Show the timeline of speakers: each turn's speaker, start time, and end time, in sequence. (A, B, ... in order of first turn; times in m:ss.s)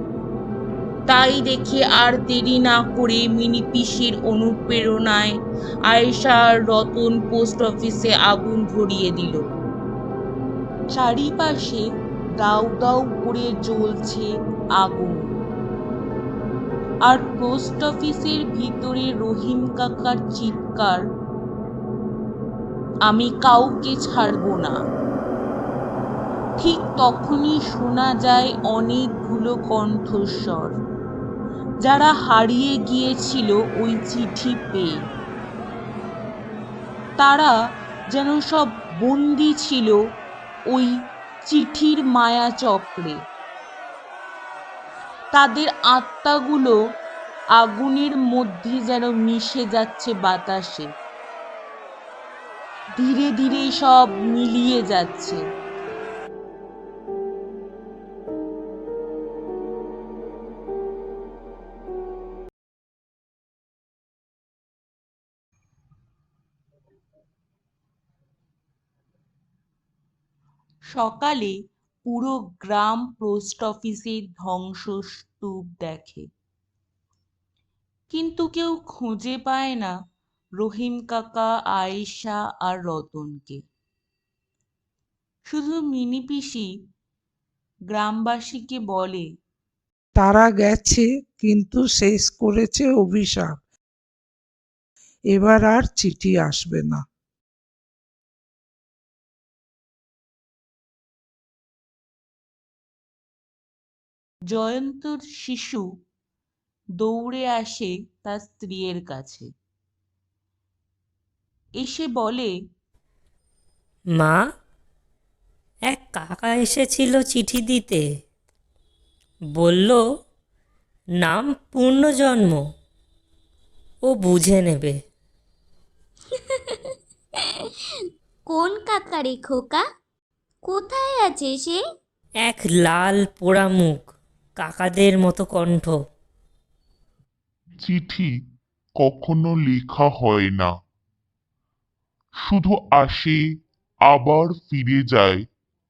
0:01.1-0:05.3 A
0:05.9-0:09.4 A
0:10.9-0:11.8 A
0:12.4-0:15.4 A
0:17.1-0:21.0 A
0:23.0-0:24.8 A
0:26.6-0:30.8 A
0:31.8-0:35.0 A
0:37.2-0:37.5 A
0:38.1-0:40.0 A
0:40.7-0:43.2 A
0:45.3-0:46.8 A
0:47.6-0:50.9 A
0:53.0-0:55.4 A
1:10.9-1:16.3 A
1:18.1-1:19.9 A
1:20.6-1:23.6 A
1:25.5-1:26.7 A
1:27.9-1:29.3 A
1:30.2-1:33.5 B
1:35.3-1:37.0 B
1:44.5-1:45.8 A
1:47.0-1:49.5 A
1:51.8-1:52.5 A
1:54.2-1:54.4 C
1:55.9-1:58.0 C
1:59.6-2:00.0 C
2:01.2-2:02.6 C
2:04.1-2:05.0 C
2:06.5-2:06.9 D
2:08.5-2:09.8 D
2:10.6-2:11.8 D
2:12.4-2:14.1 C
2:14.6-2:16.0 C
2:17.8-2:18.2 E
2:19.0-2:20.6 E
2:23.0-2:23.3 E
2:24.3-2:25.3 E